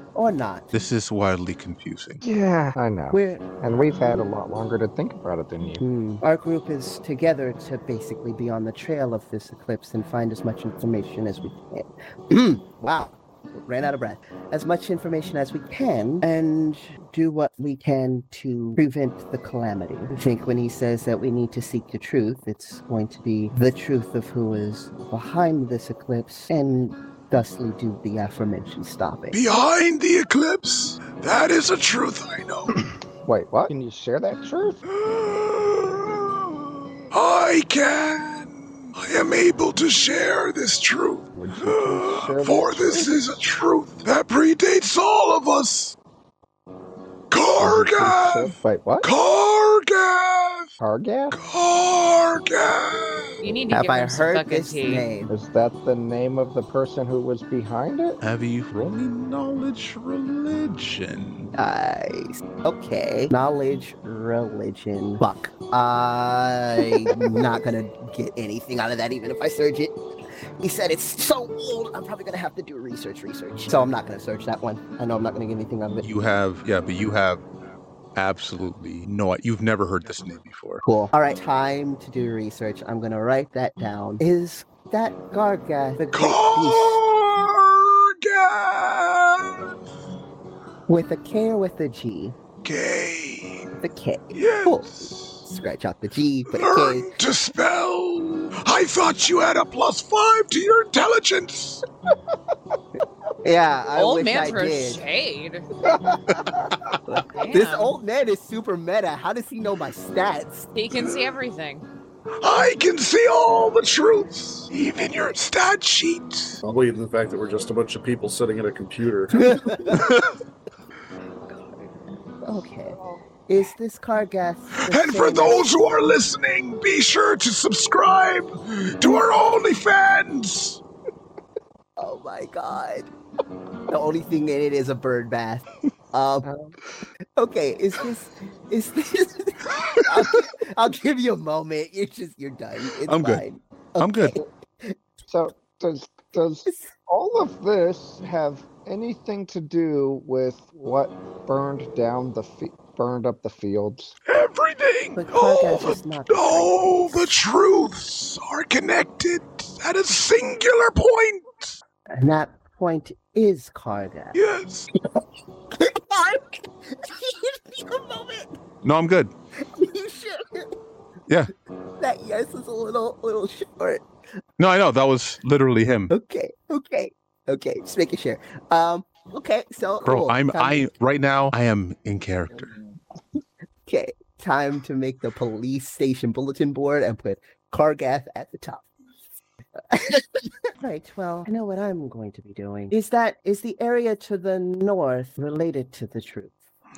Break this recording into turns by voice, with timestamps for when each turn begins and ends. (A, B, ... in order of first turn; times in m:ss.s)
0:00.1-0:00.7 A
0:00.7-0:02.2 B
0:02.2-0:05.8 C
0:03.1-0:03.5 A
0:05.8-0:29.4 A
0:29.3-0:32.8 D
0:33.2-0:34.8 C
0:34.9-0:36.3 D
0:37.1-0:46.0 D
0:41.3-0:43.2 C
0:47.3-0:50.7 D
0:47.6-0:49.1 C
0:50.8-0:51.4 C
0:51.3-0:53.4 D
0:53.4-0:55.1 E
0:53.7-0:55.3 A
0:55.3-0:58.2 C
0:58.2-1:01.5 B
1:01.6-1:10.0 A
1:10.6-1:16.0 A
1:16.0-1:17.4 B
1:18.2-1:20.8 B
1:20.8-1:27.0 A
1:26.1-1:29.7 D
1:30.9-1:32.4 A
1:32.6-1:33.7 D
1:33.8-1:37.1 A
1:34.3-1:35.5 D
1:36.5-1:41.8 D
1:43.4-1:45.0 A
1:44.0-1:45.7 E
1:45.9-1:46.7 C
1:47.1-1:50.7 A
1:47.3-1:48.0 E
1:50.8-1:51.9 E
1:52.4-1:56.6 D
1:56.6-1:59.5 F
1:59.3-2:00.1 A
2:01.5-2:05.6 A
2:04.7-2:10.8 D
2:12.0-2:13.1 A
2:13.9-2:16.7 A
2:17.4-2:25.0 A
2:23.1-2:23.4 B
2:24.0-2:24.4 B
2:25.3-2:34.2 C
2:34.3-2:41.8 D
2:35.2-2:36.9 A
2:42.1-2:44.4 A
2:44.3-2:44.9 D
2:45.7-2:48.5 A
2:48.8-2:49.3 B
2:49.6-2:50.7 A
2:52.0-2:54.0 A
2:54.6-2:56.1 B
2:56.1-3:00.8 A
3:00.0-3:02.7 B
3:03.9-3:08.9 A
3:09.9-3:16.5 A